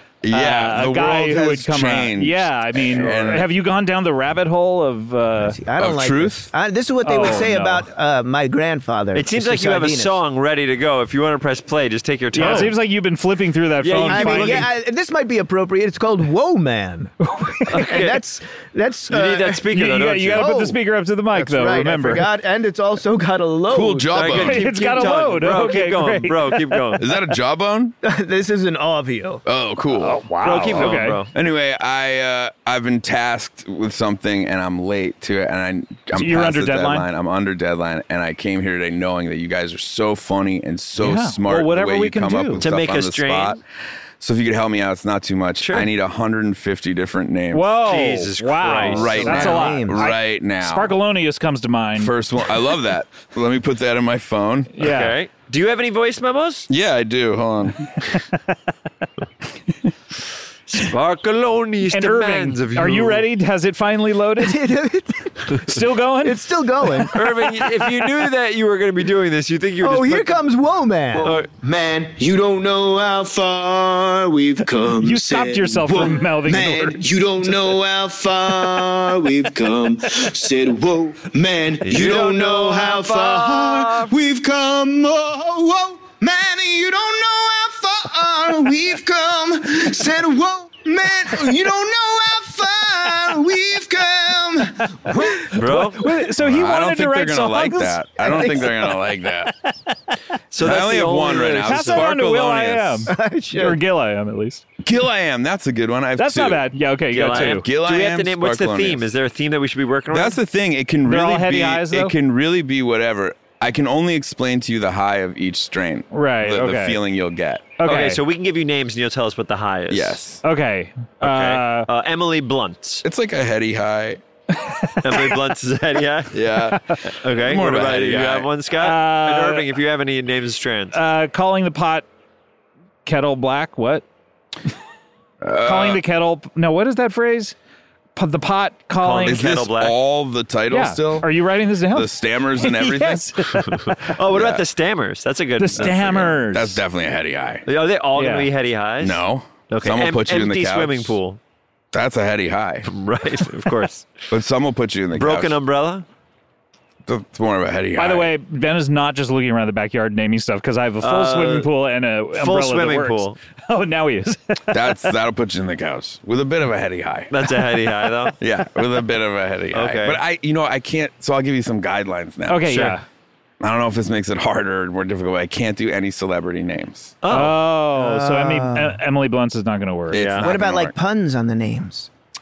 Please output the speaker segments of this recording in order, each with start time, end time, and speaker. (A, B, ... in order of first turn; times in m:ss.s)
0:00.2-0:03.5 A
0:00.3-0:05.6 B
0:05.4-0:10.2 C
0:05.8-0:06.5 A
0:07.0-0:07.8 B
0:09.1-0:12.8 D
0:12.3-0:14.7 B
0:12.4-0:12.7 C
0:13.8-0:14.7 D
0:14.0-0:19.6 C
0:17.3-0:17.8 B
0:17.7-0:18.2 D
0:19.1-0:20.5 D
0:19.7-0:22.3 B
0:20.3-0:24.3 C
0:23.7-0:25.1 A
0:24.1-0:27.0 D
0:24.3-0:27.0 B
0:27.0-0:27.9 A
0:28.0-0:29.4 C
0:29.4-0:43.6 A
0:29.9-0:31.2 B
0:30.4-0:31.3 D
0:36.2-0:37.1 B
0:41.0-0:42.6 B
0:42.6-0:43.6 D
0:44.2-0:47.8 A
0:45.6-0:45.9 D
0:47.5-0:52.1 B
0:47.8-0:49.5 D
0:48.8-0:50.9 A
0:49.2-0:50.0 C
0:52.0-0:54.7 A
0:54.8-0:55.1 B
0:54.8-0:56.7 D
0:56.7-0:58.0 A
1:00.7-1:03.2 D
1:01.9-1:04.6 B
1:04.4-1:07.3 C
1:05.5-1:06.4 B
1:07.1-1:10.4 D
1:09.8-1:11.4 C
1:11.1-1:35.4 E
1:11.2-1:11.5 D
1:15.0-1:17.0 B
1:21.8-1:24.1 D
1:35.3-1:38.9 B
1:35.5-1:36.0 D
1:36.2-1:39.5 A
1:38.2-1:38.7 C
1:40.5-1:42.1 D
1:40.6-1:43.1 A
1:41.6-1:44.6 B
1:43.1-1:43.8 C
1:44.8-1:46.7 A
1:46.2-1:47.6 B
1:47.1-1:50.4 D
1:47.2-1:49.1 A
1:50.1-1:57.8 A
1:51.0-1:52.1 B
1:56.1-1:57.0 B
1:57.8-1:58.2 B
1:57.8-2:00.2 D
1:59.9-2:00.4 A
2:00.4-2:01.9 B
2:01.2-2:03.0 D
2:03.0-2:04.2 A
2:04.7-2:05.3 B
2:05.0-2:06.4 D
2:06.3-2:08.5 A
2:07.1-2:11.0 D
2:08.8-2:09.6 B
2:10.9-2:12.0 B
2:13.0-2:14.0 B
2:15.4-2:16.0 A
2:15.6-2:17.5 B
2:18.2-2:19.4 B
2:19.0-2:20.0 D
2:19.2-2:21.3 A
2:20.7-2:24.1 B
2:21.9-2:23.6 A
2:23.6-2:26.2 D
2:24.3-2:24.6 A
2:25.6-2:26.8 B
2:25.7-2:27.6 A
2:27.6-2:31.4 D
2:28.2-2:28.5 B
2:29.0-2:31.2 A
2:31.9-2:32.9 A
2:32.9-2:34.1 D
2:34.3-2:35.6 A
2:35.1-2:36.0 D
2:37.0-2:38.3 A
2:38.0-2:45.1 B
2:41.0-2:41.7 D
2:42.3-2:43.4 D
2:44.7-2:47.4 A
2:47.3-2:48.4 D
2:48.4-2:52.9 A
2:49.7-2:50.2 D
2:52.5-2:53.0 B
2:52.7-2:53.0 D
2:53.6-2:57.2 A
2:57.2-2:57.6 D
2:57.3-3:00.3 B
2:58.0-2:59.0 C
3:00.1-3:00.9 A
3:00.1-3:00.5 D
3:00.4-3:02.1 C